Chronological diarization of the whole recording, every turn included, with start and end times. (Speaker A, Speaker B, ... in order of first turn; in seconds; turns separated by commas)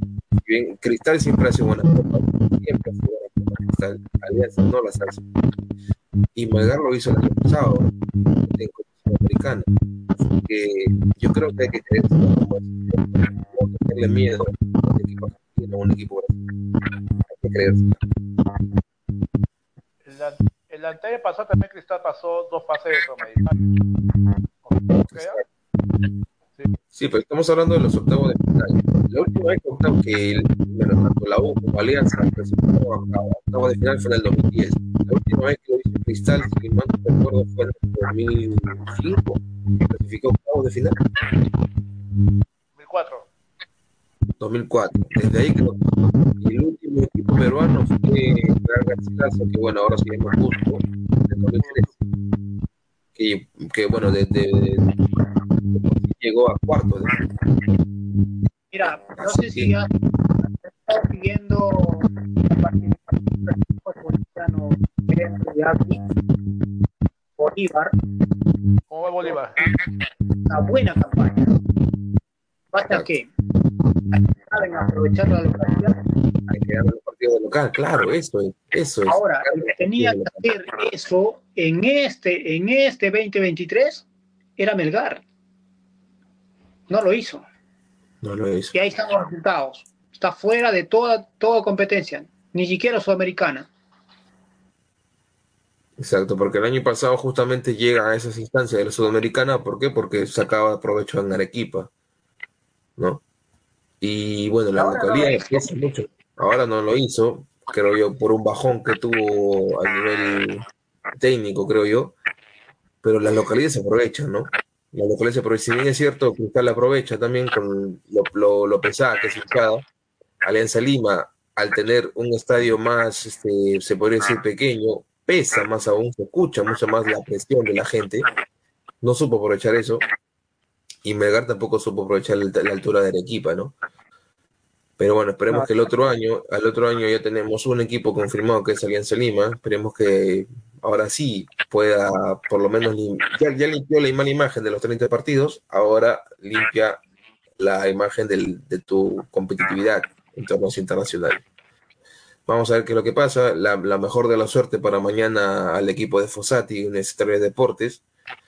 Speaker A: 0.4-5.2, Speaker A: 6.3-7.9, Speaker A: 8.4-9.7, Speaker A: 10.3-16.4, Speaker A: 17.3-18.0, Speaker B: 20.1-23.6, Speaker B: 24.6-25.4, Speaker A: 25.0-25.4, Speaker A: 26.9-41.0, Speaker B: 42.8-43.3, Speaker A: 44.4-51.9, Speaker B: 51.6-51.9, Speaker A: 53.1-55.0, Speaker A: 55.6-57.2, Speaker C: 58.7-59.9, Speaker A: 59.2-59.8, Speaker C: 60.6-66.0, Speaker C: 67.4-68.0, Speaker B: 68.9-69.6, Speaker C: 70.5-71.5, Speaker C: 72.7-73.3, Speaker C: 74.1-76.0, Speaker A: 76.5-80.5, Speaker C: 79.1-84.0, Speaker C: 84.6-85.2, Speaker C: 86.9-87.5, Speaker A: 88.2-88.7, Speaker C: 88.7-93.7, Speaker A: 96.0-101.9, Speaker A: 103.0-103.2, Speaker A: 104.0-110.6, Speaker C: 104.8-105.5, Speaker A: 111.1-112.1, Speaker A: 113.0-119.8, Speaker A: 120.4-128.3, Speaker A: 129.0-130.0, Speaker A: 131.0-133.8, Speaker A: 135.0-147.0, Speaker C: 135.5-135.8, Speaker A: 147.6-151.4, Speaker A: 152.5-158.0